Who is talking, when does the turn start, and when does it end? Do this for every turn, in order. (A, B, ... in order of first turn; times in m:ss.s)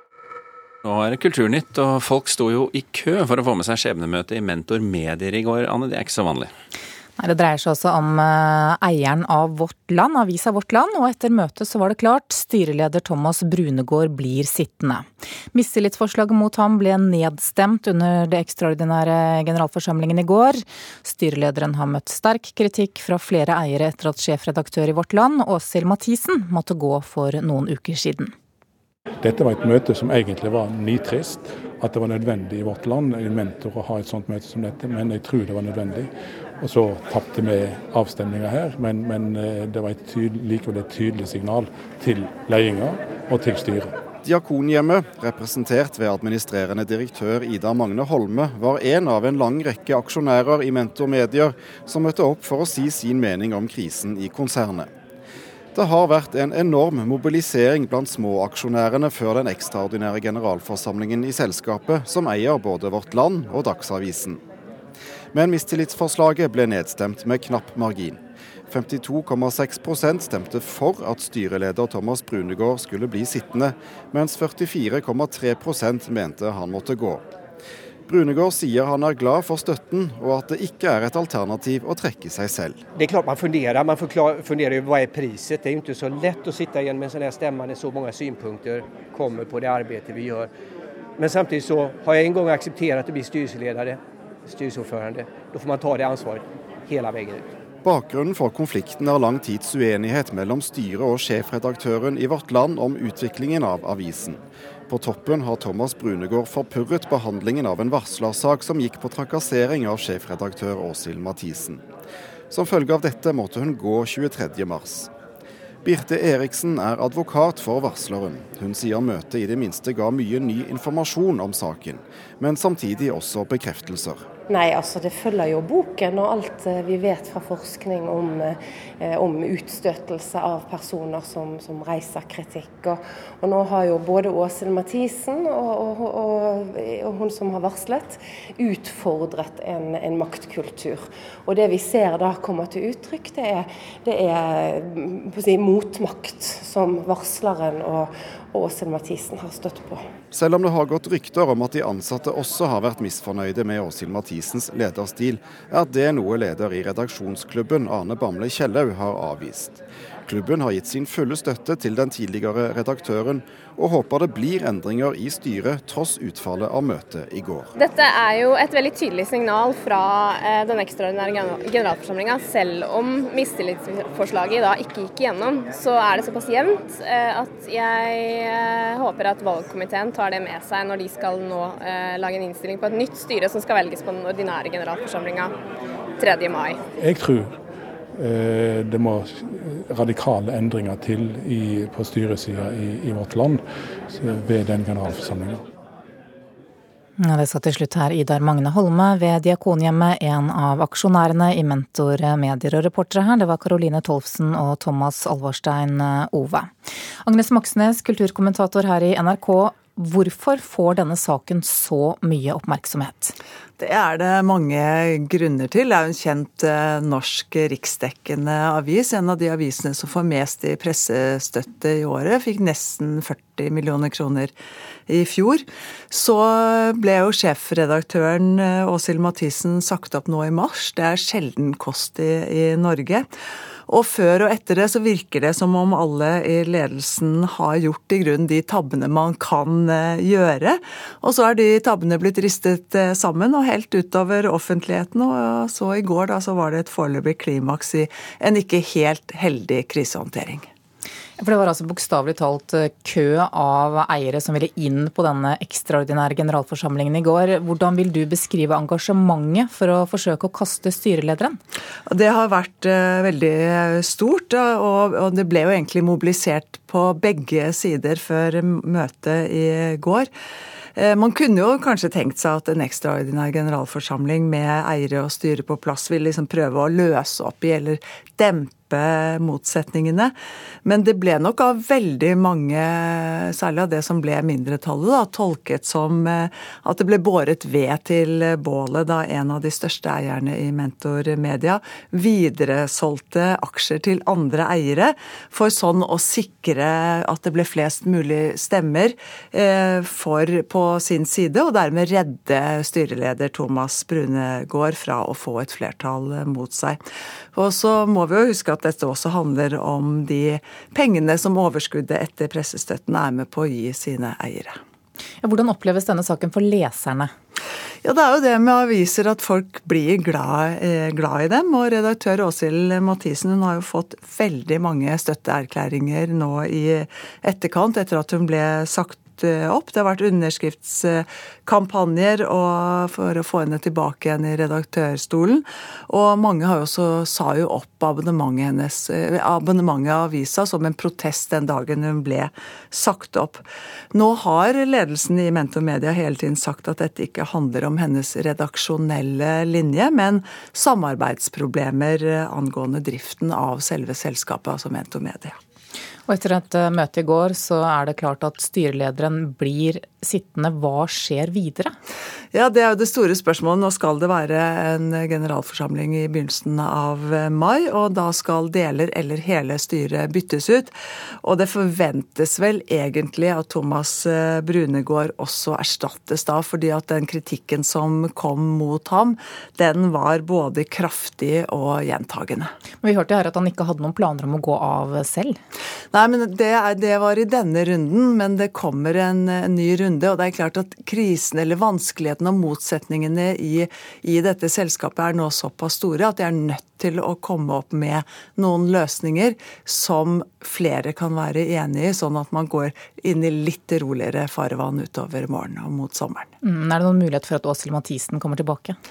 0:00.8-0:06.5 A
0:07.2-0:28.3 B
0:29.2-0:43.9 C
0:44.2-0:54.9 D
0:55.7-1:04.4 D
1:05.3-1:17.2 D
1:18.1-1:22.8 D
1:23.0-1:30.5 E
1:31.2-1:37.5 E
1:37.8-1:51.8 D
1:52.5-1:55.1 D
1:55.8-2:04.2 D
2:04.5-2:30.0 F
2:30.3-2:47.7 D
2:47.8-3:05.5 G
3:06.2-3:06.8 G
3:07.0-3:07.5 C
3:08.2-3:15.6 C
3:17.2-3:26.7 B
3:27.2-3:33.4 B
3:33.8-3:44.5 H
3:45.1-3:53.3 H
3:53.9-4:10.7 H
4:11.4-4:21.6 B
4:22.1-4:30.3 H
4:31.0-4:40.3 H
4:40.8-5:07.0 H
5:07.5-5:14.8 H
5:15.4-5:17.3 B
5:18.0-5:55.6 H
5:56.3-6:02.0 B
6:02.5-6:22.7 H
6:23.0-6:25.6 B
6:26.1-6:46.5 H
6:46.6-6:49.0 B